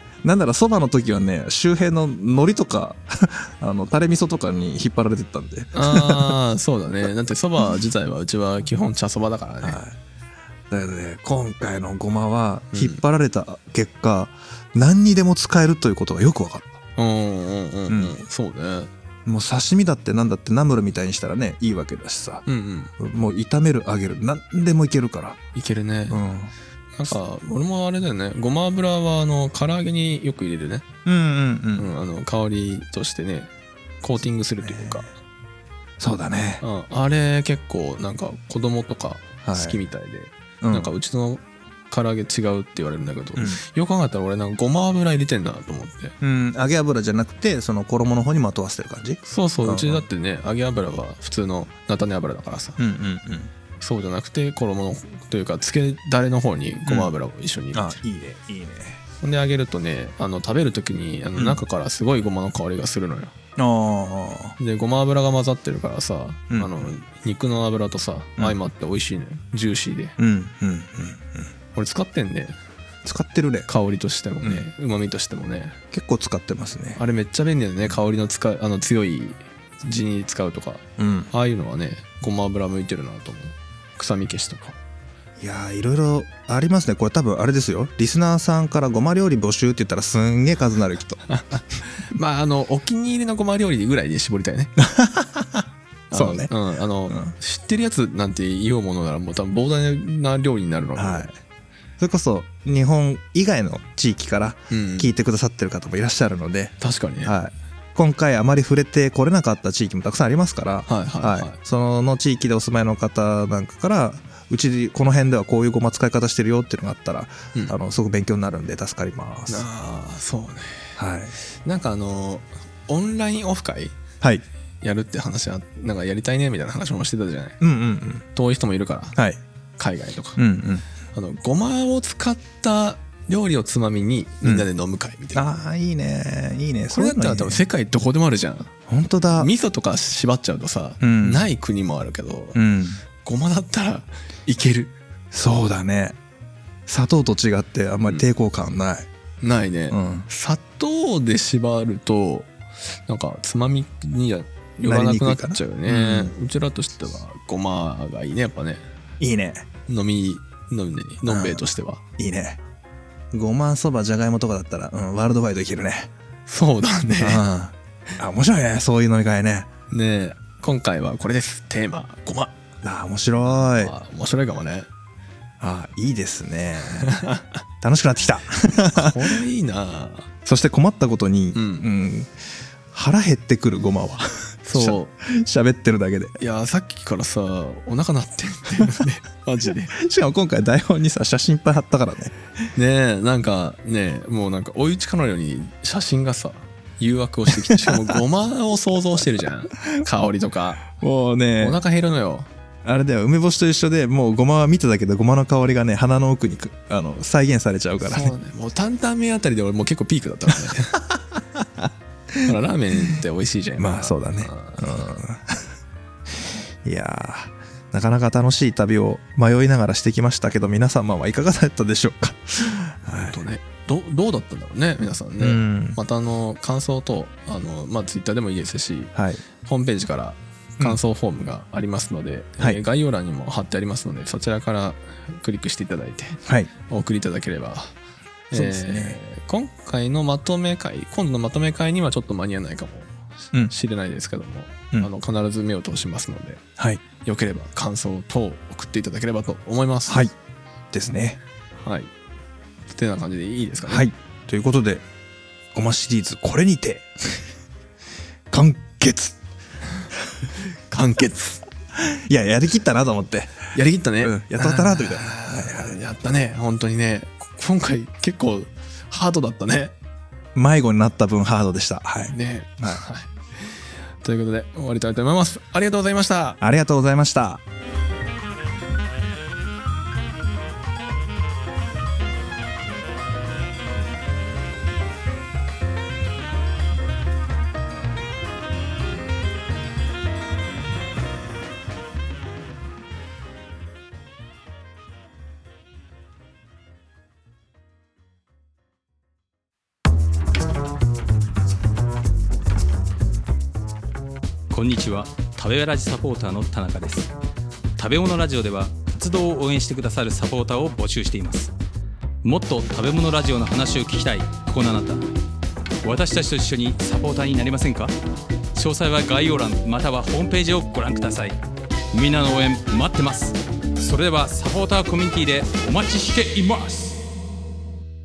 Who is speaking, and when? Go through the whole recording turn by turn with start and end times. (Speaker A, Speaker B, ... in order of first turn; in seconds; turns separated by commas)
Speaker A: 0.2-6.4, Speaker B: 5.7-9.8, Speaker A: 9.6-10.0, Speaker A: 10.7-16.8, Speaker B: 12.7-13.0, Speaker B: 17.0-18.9, Speaker A: 17.9-18.2, Speaker A: 19.3-22.4, Speaker B: 22.5-22.9, Speaker A: 23.0-25.4, Speaker B: 25.5-26.2, Speaker A: 26.1-26.5, Speaker B: 27.0-30.9, Speaker A: 31.1-31.9, Speaker B: 31.8-33.5, Speaker B: 34.0-35.1, Speaker A: 34.6-35.0, Speaker A: 36.0-36.6, Speaker B: 36.6-46.1, Speaker A: 39.5-39.8, Speaker A: 40.6-40.9, Speaker A: 43.4-43.6, Speaker A: 46.2-50.0, Speaker B: 49.2-52.8, Speaker A: 52.8-53.5, Speaker B: 53.8-58.0, Speaker A: 57.7-59.0, Speaker B: 59.2-63.3, Speaker A: 63.6-64.6, Speaker B: 64.6-70.2, Speaker A: 66.5-66.9, Speaker A: 70.2-71.5, Speaker B: 71.7-72.6, Speaker A: 73.0-73.7, Speaker B: 73.7-75.8, Speaker A: 74.4-74.7, Speaker A: 75.9-77.0, Speaker B: 77.0-84.8, Speaker A: 81.0-81.3, Speaker A: 85.4-91.2, Speaker B: 91.3-94.8, Speaker A: 94.8-96.5, Speaker B: 96.1-101.3, Speaker A: 97.1-97.3, Speaker A: 101.0-101.3, Speaker A: 102.0-119.7, Speaker B: 104.7-105.1, Speaker B: 106.8-107.3, Speaker B: 110.9-111.6, Speaker B: 119.5-121.0, Speaker A: 121.0-121.3, Speaker B: 121.7-124.0, Speaker B: 124.8-127.6, Speaker A: 127.6-128.2, Speaker B: 128.3-129.2, Speaker B: 129.8-130.4, Speaker A: 130.4-130.8, Speaker B: 131.1-135.5, Speaker A: 135.3-137.6, Speaker B: 136.9-138.7, Speaker A: 138.9-139.5, Speaker B: 139.4-142.6, Speaker A: 141.0-141.4, Speaker A: 142.6-143.0, Speaker B: 143.2-144.9, Speaker A: 145.3-146.2, Speaker A: 146.9-149.1, Speaker B: 149.4-158.8, Speaker A: 149.9-150.3, Speaker A: 154.8-156.3, Speaker A: 159.2-159.7, Speaker B: 159.9-162.0, Speaker A: 161.3-161.6, Speaker A: 162.2-162.6, Speaker A: 163.3-166.1, Speaker B: 166.5-167.4, Speaker A: 167.2-169.7, Speaker B: 169.9-172.5, Speaker A: 172.8-173.9, Speaker B: 173.8-174.9, Speaker A: 175.6-177.1, Speaker B: 176.9-177.6, Speaker A: 177.8-179.4, Speaker B: 178.8-180.3, Speaker A: 180.4-182.3, Speaker B: 181.5-181.9, Speaker A: 182.9-186.3, Speaker B: 184.7-185.1, Speaker B: 186.4-189.9, Speaker A: 189.9-192.3, Speaker B: 192.8-200.9, Speaker A: 197.7-198.2, Speaker A: 200.9-201.8, Speaker B: 201.6-202.5, Speaker A: 202.8-208.3, Speaker B: 208.0-211.0, Speaker A: 211.4-212.5, Speaker B: 212.4-215.1, Speaker A: 213.8-215.7, Speaker A: 216.8-223.4, Speaker B: 223.2-237.9, Speaker A: 225.4-226.0, Speaker A: 229.2-229.4, Speaker B: 238.5-243.1, Speaker A: 238.5-239.2, Speaker B: 243.7-246.6, Speaker B: 247.2-250.3, Speaker A: 250.1-250.3, Speaker A: 250.9-251.4, Speaker B: 251.8-252.1, Speaker B: 252.9-254.1, Speaker A: 253.9-255.1, Speaker A: 255.7-257.5, Speaker A: 258.5-259.4, Speaker B: 260.9-261.6, Speaker A: 261.9-263.6, Speaker B: 263.7-269.9, Speaker A: 264.2-266.0, Speaker A: 270.6-273.0, Speaker B: 272.3-276.6, Speaker A: 276.6-277.6, Speaker C: 304.7-307.3, Speaker C: 308.0-311.7, Speaker C: 312.4-315.3, Speaker C: 316.0-318.1, Speaker C: 318.8-321.6, Speaker C: 322.1-327.2